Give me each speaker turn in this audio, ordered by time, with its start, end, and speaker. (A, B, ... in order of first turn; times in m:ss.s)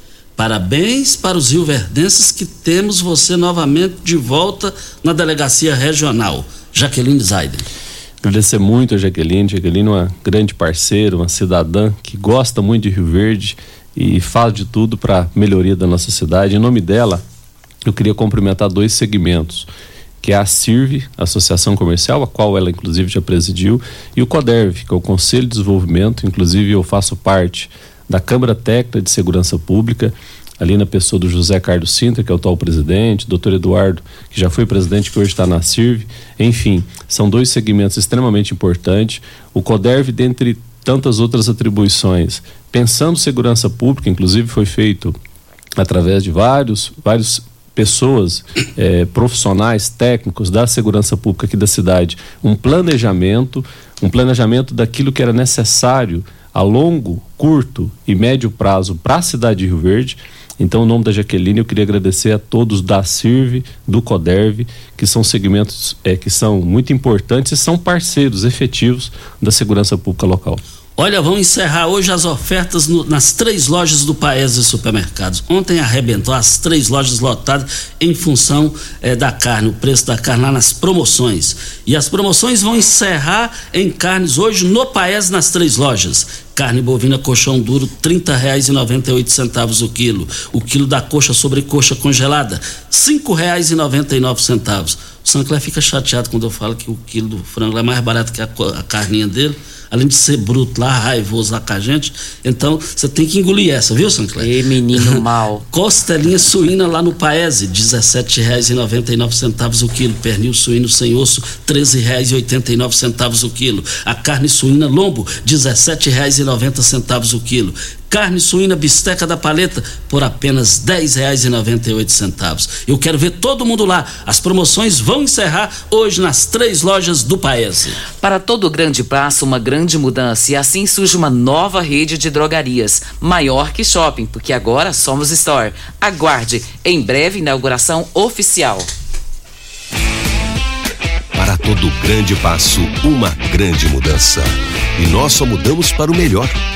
0:00.4-0:07.6 A
0:08.2-0:17.2 B
0:17.8-0:19.7 B
0:20.2-0:45.2 B
0:45.8-1:10.6 B
1:11.0-1:45.1 A
1:44.4-1:45.7 C
1:45.7-2:08.0 A
2:08.2-2:18.9 C
2:21.3-2:26.6 D